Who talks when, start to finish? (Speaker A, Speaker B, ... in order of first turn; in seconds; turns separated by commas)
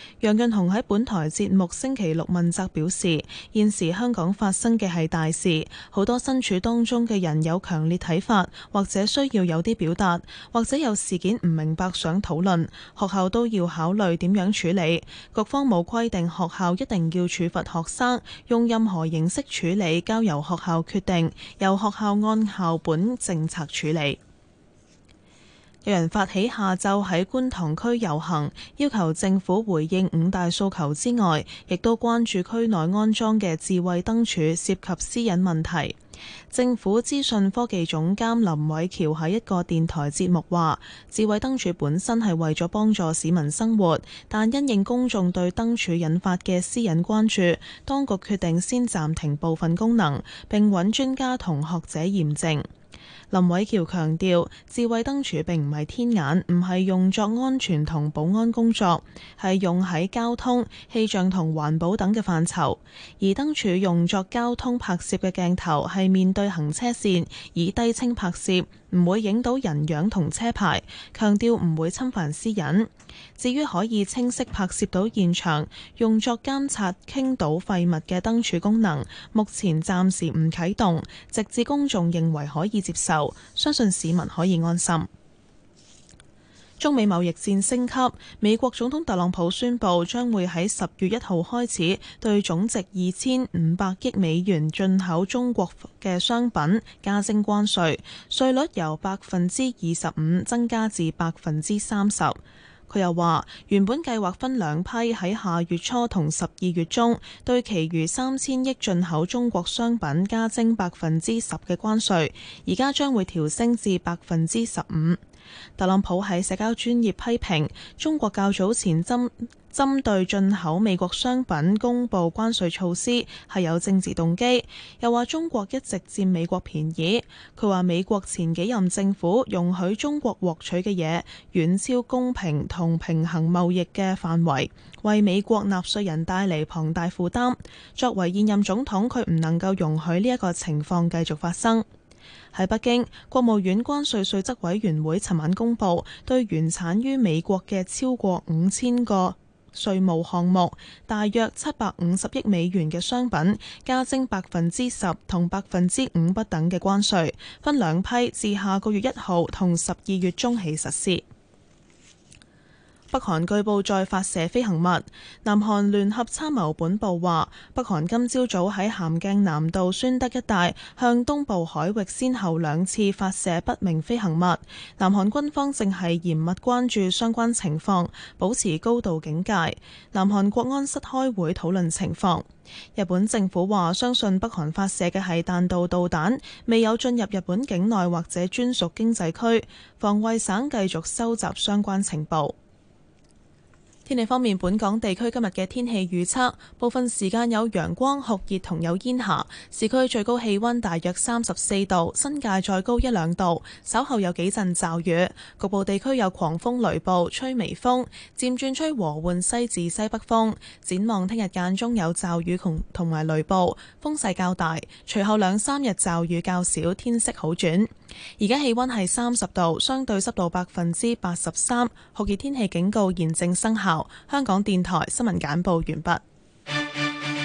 Speaker A: 0.2-24.2, Speaker A: 25.8-36.0, Speaker A: 36.5-52.7, Speaker A: 53.3-85.1, Speaker A: 86.8-115.2, Speaker A: 115.8-141.9, Speaker A: 142.5-161.2, Speaker A: 163.1-192.6, Speaker A: 194.1-226.2